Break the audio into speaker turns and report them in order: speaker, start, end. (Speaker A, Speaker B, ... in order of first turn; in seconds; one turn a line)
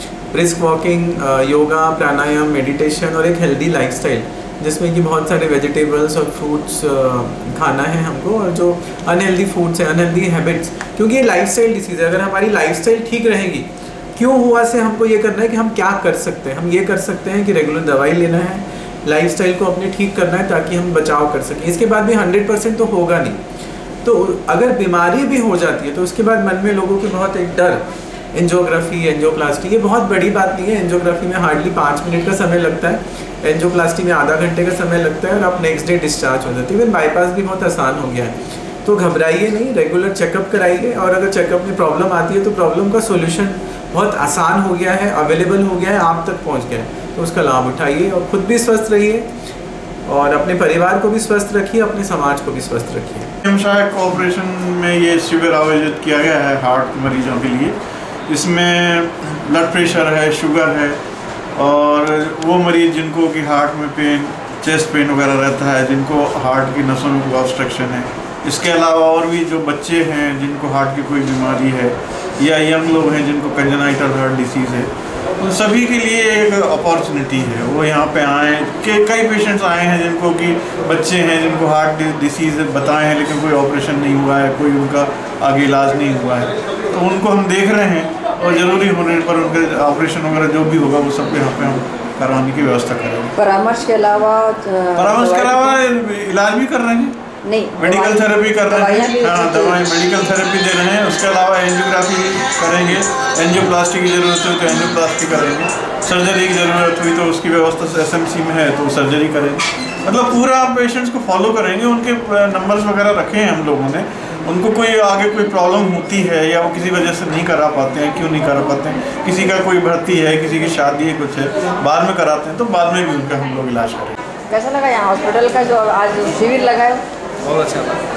Speaker A: 0.3-23.4
Speaker A: 24.0-49.3
Speaker A: 50.1-53.3
Speaker B: 53.4-57.8
Speaker B: 58.3-61.0
Speaker B: 61.5-93.3
Speaker C: 93.3-95.8
Speaker B: 95.0-97.2
Speaker C: 97.4-99.8
Speaker B: 97.8-124.2
Speaker C: 124.5-127.0